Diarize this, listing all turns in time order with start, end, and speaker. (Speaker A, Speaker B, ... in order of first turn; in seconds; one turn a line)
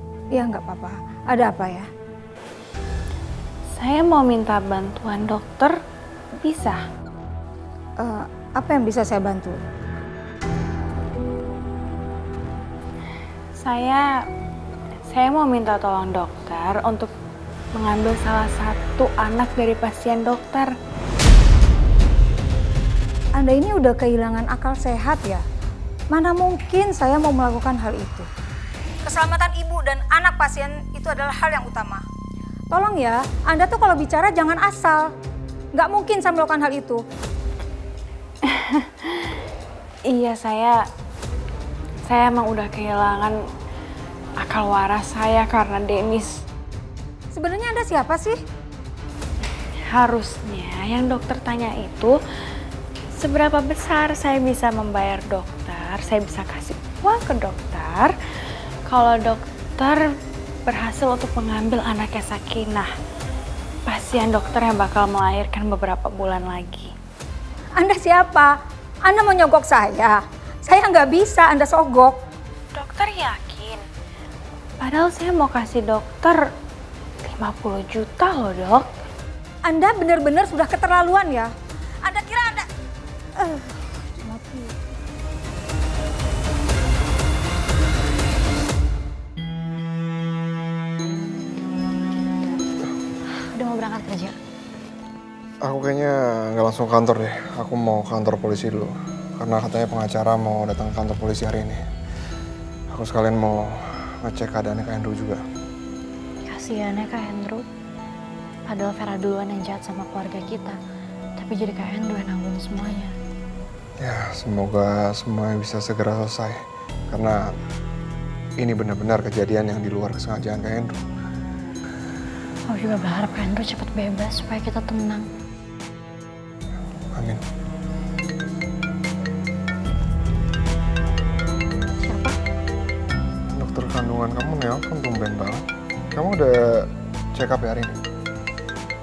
Speaker A: 0.3-1.9
Speaker B: 3.8-5.7
Speaker B: 6.4-6.8
Speaker A: 8.0-9.6
Speaker B: 13.6-14.1
Speaker B: 15.1-17.1
Speaker B: 17.8-20.7
Speaker A: 23.4-25.4
Speaker A: 26.1-28.3
Speaker A: 29.0-32.0
Speaker A: 32.7-35.1
Speaker A: 35.7-37.0
Speaker B: 38.5-39.3
Speaker B: 40.1-40.8
Speaker B: 42.0-43.4
Speaker B: 44.4-46.3
Speaker A: 47.3-48.4
Speaker B: 49.9-52.1
Speaker B: 53.2-58.1
Speaker B: 58.9-60.0
Speaker B: 60.7-62.9
Speaker B: 63.9-66.9
Speaker A: 67.8-68.5
Speaker A: 69.0-72.2
Speaker B: 72.7-73.8
Speaker B: 74.8-76.4
Speaker B: 77.2-78.9
Speaker A: 79.7-81.5
Speaker A: 82.0-82.7
Speaker A: 83.4-84.8
Speaker C: 93.2-94.4
Speaker D: 95.6-101.8
Speaker D: 102.9-105.4
Speaker C: 106.5-107.6
Speaker C: 108.7-110.8
Speaker C: 111.4-113.1
Speaker D: 114.0-117.5
Speaker D: 118.6-121.0
Speaker C: 122.7-125.2
Speaker D: 127.1-127.4
Speaker C: 132.0-132.4
Speaker D: 133.5-137.9